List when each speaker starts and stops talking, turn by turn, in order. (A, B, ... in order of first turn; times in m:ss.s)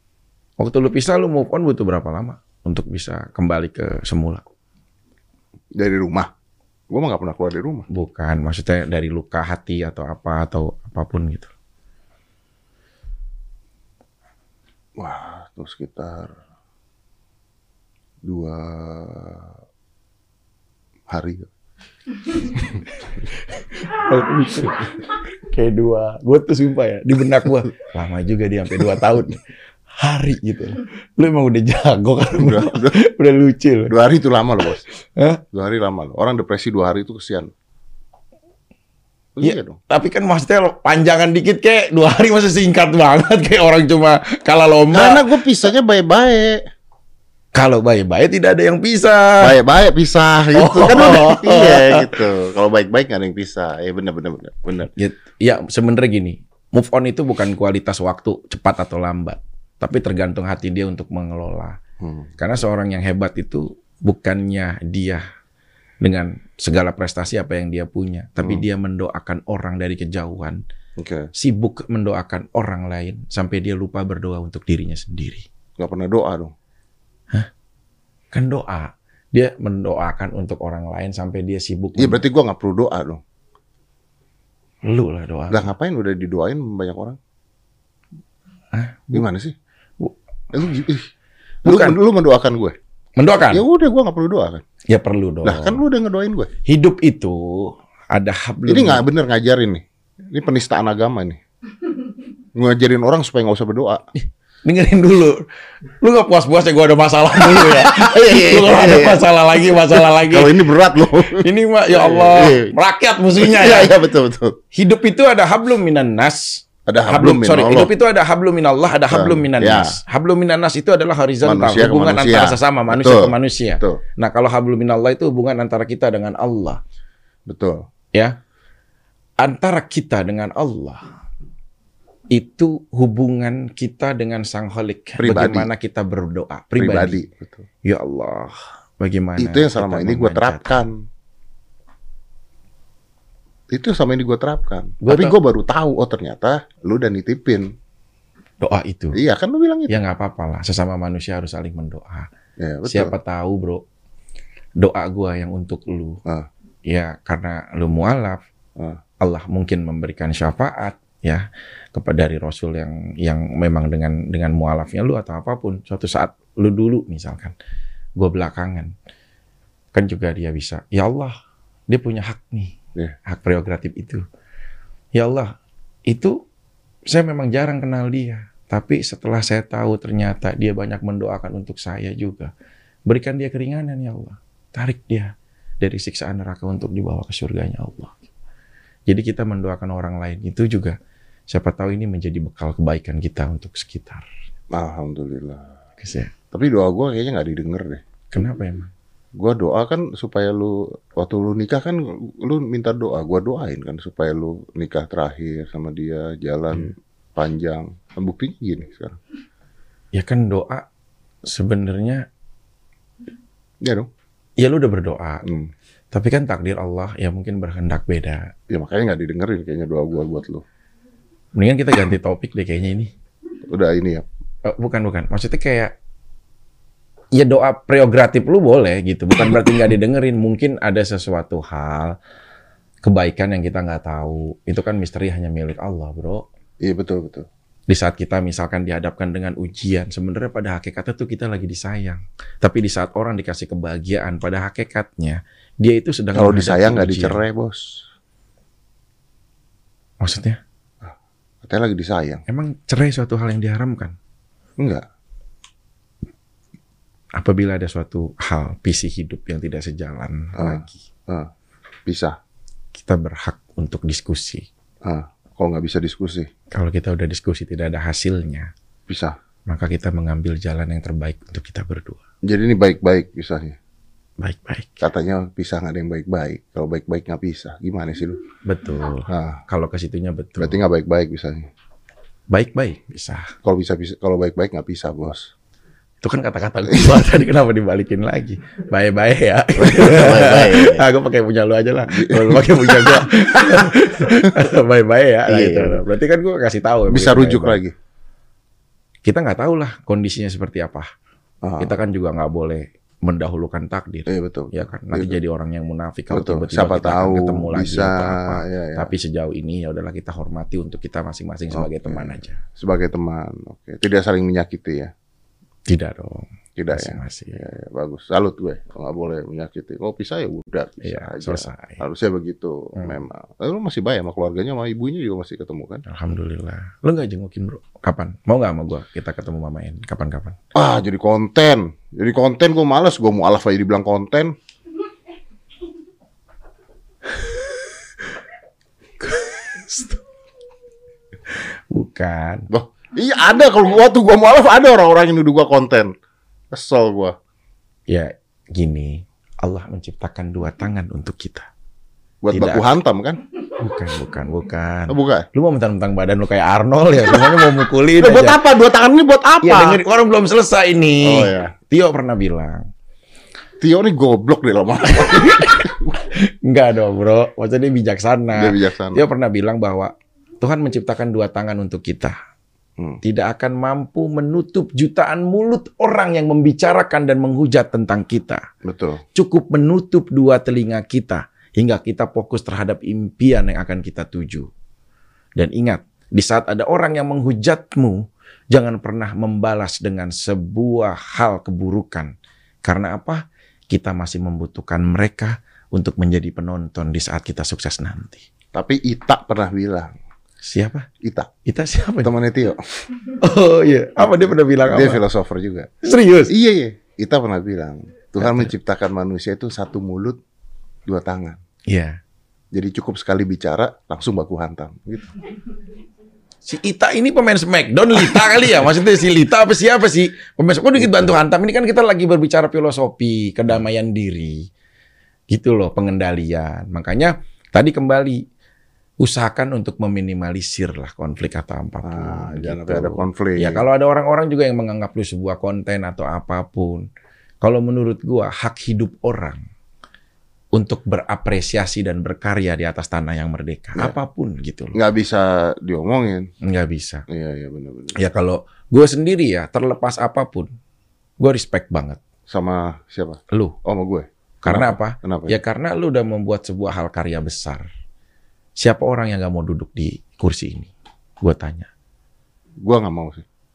0:00.6-0:04.4 A
0:05.8-0:06.3 B
0:06.9-0:07.9 B
0:07.9-0:11.5 A
0:15.0-0:16.3 B
0:18.2-0:19.5 B
0:21.1-0:21.5 B
0:22.6-0:22.8 B
0:23.3-0:29.4 A
0:30.0-0:33.9 A
0:32.4-0:33.0 B
0:33.9-0:34.8 B
0:35.2-0:35.4 A
0:35.5-0:37.5 B
0:39.4-0:39.8 B
0:39.4-0:45.2 A
0:44.9-0:46.6 B
0:47.5-0:49.6 A
0:49.4-0:54.9 B
0:50.6-0:52.2 A
0:55.0-1:01.8 A
1:02.0-1:02.3 B
1:02.4-1:05.2 A
1:06.0-1:10.6 A
1:11.0-1:11.3 B
1:11.4-1:15.4 A
1:15.8-1:16.5 B
1:18.3-1:22.2 A
1:22.0-1:23.2 B
1:24.8-1:25.7 A
1:25.5-1:27.2 B
1:28.7-1:29.2 A
1:29.1-1:29.6 B
1:30.5-1:31.1 B
1:31.6-1:32.8 B
1:31.7-1:32.0 A
1:33.2-1:33.6 A
1:33.5-1:34.6 B
1:34.9-1:35.8 A
1:35.4-1:36.5 B
1:36.7-1:39.0 A
1:38.7-1:41.4 B
1:42.6-1:44.0 B
1:44.2-1:45.4 A
1:46.0-1:50.6 A
1:47.4-1:52.8 B
1:51.4-1:53.9 A
1:53.4-1:54.6 B
1:54.7-2:06.8 A
1:56.9-1:57.9 B
1:59.1-2:00.0 B
2:01.4-2:04.0 B
2:07.5-2:07.8 B
2:09.4-2:11.0 A
2:12.3-2:17.2 A
2:15.2-2:15.7 B
2:16.8-2:17.6 B
2:17.8-2:20.7 A
2:19.4-2:21.0 B
2:23.7-2:27.7 B
2:25.0-2:25.4 A
2:28.6-2:29.2 A
2:29.1-2:30.0 B
2:29.9-2:32.3 A
2:32.6-2:33.1 B
2:32.8-2:33.8 A
2:34.8-2:36.2 A
2:36.9-2:38.4 A
2:39.2-2:47.6 A
2:48.2-2:48.9 A
2:49.9-2:51.4 A
2:51.9-2:52.8 A
2:53.3-2:54.2 A
2:55.1-2:55.5 A
2:56.1-2:56.4 A
2:57.1-3:02.5 A
3:03.1-3:08.2 A
3:09.1-3:11.0 A
3:11.5-3:14.2 A
3:14.7-3:15.7 B
3:16.0-3:16.3 A
3:16.5-3:18.0 B
3:18.3-3:18.9 A
3:19.4-3:29.2 B
3:30.1-3:30.9 A
3:31.4-3:32.3 A
3:33.8-3:34.1 B
3:34.6-3:35.4 A
3:35.4-3:35.7 B
3:36.1-3:38.5 A
3:38.7-3:40.6 B
3:41.6-3:43.1 A
3:43.7-3:44.2 B
3:44.6-3:45.9 A
3:47.3-3:52.2 A
3:53.0-3:56.4 A
3:56.8-3:57.5 B
3:57.9-4:07.4 A
4:06.3-4:08.0 B
4:10.2-4:10.6 A
4:11.6-4:12.4 B
4:12.5-4:14.2 A
4:14.8-4:15.0 B
4:17.3-4:21.0 A
4:20.6-4:21.5 B
4:22.1-4:22.4 B
4:22.9-4:24.7 A
4:25.0-4:26.5 B
4:26.7-4:28.7 A
4:29.1-4:29.4 B
4:29.7-4:32.2 A
4:32.5-4:33.8 B
4:34.4-4:35.0 A
4:35.0-4:38.4 B
4:38.7-4:40.8 A
4:39.3-4:39.6 B
4:40.6-4:41.7 B
4:42.5-4:43.5 A
4:43.6-4:45.5 B
4:46.2-4:57.8 A
4:49.8-4:51.0 B
4:52.1-4:54.5 B
4:55.5-4:56.0 B
4:57.1-4:57.9 B
4:59.2-5:01.1 A
5:01.6-5:01.9 B
5:01.8-5:12.6 A
5:04.3-5:05.4 B
5:06.3-5:09.1 B
5:11.7-5:15.1 B
5:15.9-5:17.6 A
5:16.8-5:26.0 B
5:21.0-5:22.0 A
5:26.1-5:30.6 A
5:30.8-5:34.5 B
5:37.4-5:37.7 A
5:39.2-5:40.2 A
5:41.5-5:42.7 A
5:42.7-5:46.1 B
5:46.7-5:47.4 B
5:48.1-5:51.7 A
5:52.4-5:53.4 B
5:52.5-5:52.9 A
5:53.8-5:58.6 A
5:55.1-5:55.5 B
5:58.2-6:00.0 B
5:59.6-6:02.8 A
6:01.2-6:01.7 B
6:03.8-6:06.2 B
6:05.2-6:12.4 A
6:08.5-6:09.2 B
6:13.2-6:18.6 A
6:18.8-6:19.2 B
6:19.4-6:24.7 A
6:25.6-6:32.3 A
6:32.8-6:38.4 A
6:38.7-6:40.1 B
6:40.6-6:41.1 A
6:41.2-6:41.5 B
6:41.6-6:42.3 A
6:42.2-6:42.8 B
6:43.4-6:45.2 A
6:44.8-6:45.9 B
6:46.0-6:46.5 A
6:46.5-6:50.4 B
6:48.4-6:48.7 A
6:51.1-6:51.6 B
6:51.9-6:52.2 A
6:52.7-6:55.4 B
6:56.6-7:04.7 A
7:01.0-7:01.3 B
7:05.5-7:08.4 A
7:09.2-7:17.1 A
7:12.0-7:13.8 B
7:17.6-7:19.6 A
7:20.7-7:25.0 A
7:24.9-7:26.5 B
7:26.6-7:27.3 A
7:27.3-7:28.2 B
7:28.2-7:30.7 A
7:31.4-7:32.2 A
7:32.5-7:35.6 B
7:34.6-7:37.8 A
7:38.8-7:40.9 A
7:41.4-7:41.9 A
7:42.8-7:43.4 B